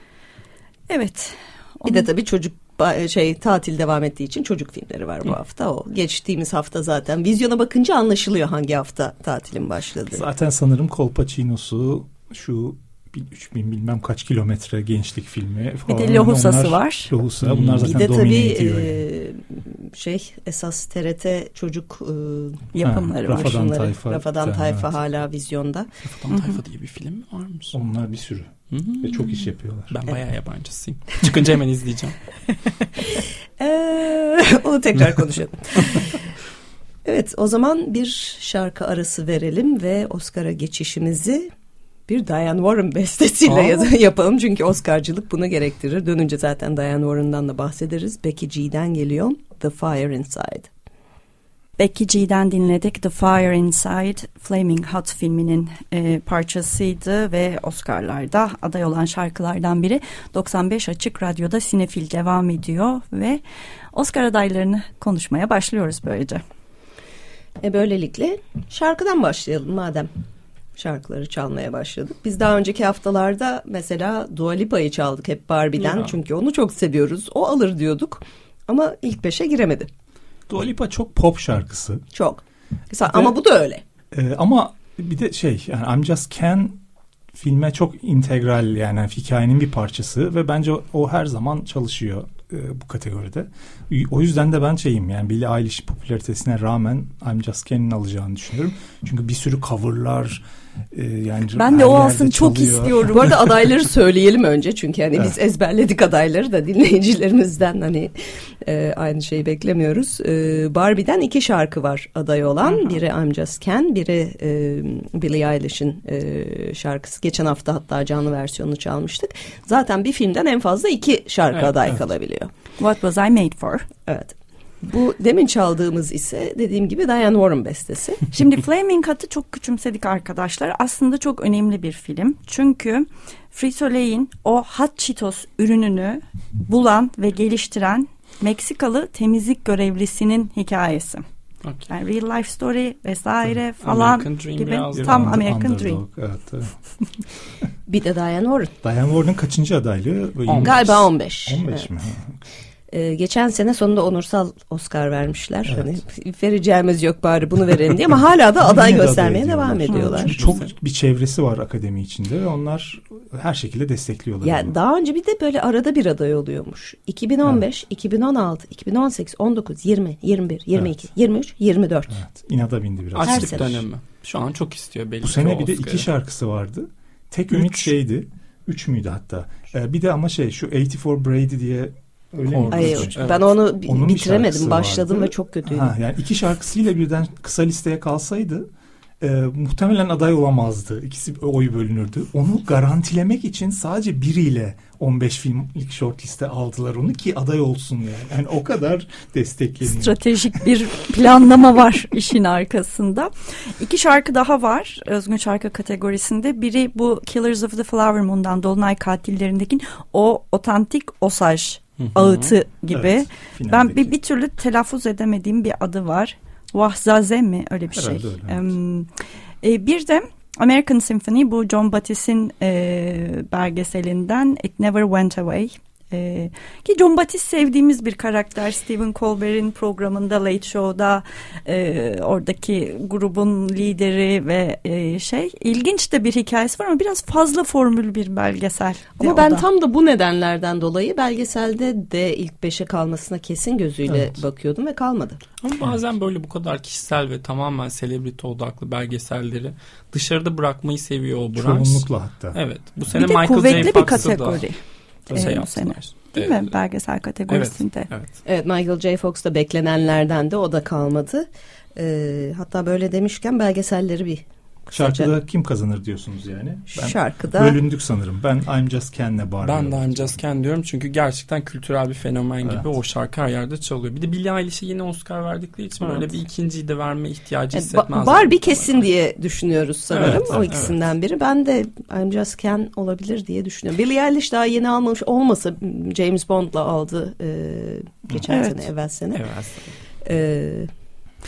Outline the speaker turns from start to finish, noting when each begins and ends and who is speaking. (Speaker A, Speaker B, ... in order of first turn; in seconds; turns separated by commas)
Speaker A: 0.9-2.1, Speaker B: 1.9-10.2, Speaker C: 10.1-19.0, Speaker A: 15.9-17.1, Speaker D: 17.4-17.9, Speaker B: 17.8-22.7, Speaker A: 22.7-23.6, Speaker C: 22.8-24.9, Speaker B: 23.3-25.9, Speaker D: 26.1-27.8, Speaker A: 26.3-26.6, Speaker C: 27.7-30.1, Speaker D: 28.7-29.3, Speaker D: 29.9-32.2, Speaker B: 33.0-36.3, Speaker B: 37.0-41.5, Speaker B: 42.1-50.7, Speaker D: 43.5-43.9, Speaker A: 51.8-63.4, Speaker A: 63.9-66.4, Speaker B: 67.6-70.1, Speaker B: 70.8-79.9, Speaker D: 75.8-76.2, Speaker C: 80.5-82.0, Speaker B: 82.1-83.8, Speaker C: 83.1-83.3, Speaker C: 84.1-86.8, Speaker C: 87.3-103.3, Speaker A: 101.5-103.3, Speaker B: 103.0-122.5, Speaker D: 112.6-113.0, Speaker A: 122.8-123.9, Speaker B: 124.1-128.2, Speaker A: 128.3-141.2, Speaker D: 141.6-141.9, Speaker A: 141.9-146.0, Speaker D: 143.8-145.4, Speaker C: 144.9-146.8, Speaker B: 147.9-148.7, Speaker C: 148.8-152.4, Speaker D: 150.5-150.8, Speaker B: 150.6-151.9, Speaker B: 152.9-160.6, Speaker C: 158.6-164.8, Speaker A: 159.9-160.3, Speaker B: 164.4-172.1, Speaker C: 172.1-173.8, Speaker D: 173.2-176.1, Speaker B: 173.3-173.8, Speaker C: 175.2-183.2, Speaker D: 177.5-177.9, Speaker D: 182.5-183.5, Speaker B: 182.7-185.9, Speaker C: 183.8-188.7, Speaker C: 189.2-200.6, Speaker A: 199.8-219.1, Speaker D: 212.1-212.5, Speaker C: 212.9-214.2, Speaker C: 217.9-218.8, Speaker A: 219.6-239.7, Speaker B: 239.2-245.4, Speaker C: 244.1-244.4, Speaker D: 245.6-254.7, Speaker C: 251.5-254.3, Speaker A: 253.1-254.8, Speaker D: 255.3-256.7, Speaker A: 255.3-258.1, Speaker D: 257.5-258.4, Speaker B: 258.4-265.3, Speaker C: 264.9-270.4, Speaker B: 266.9-267.8, Speaker D: 269.6-279.1, Speaker B: 276.0-276.4, Speaker B: 277.7-289.5, Speaker D: 280.1-280.9, Speaker C: 280.1-281.0, Speaker A: 288.5-288.8, Speaker D: 289.3-289.9, Speaker B: 290.2-290.9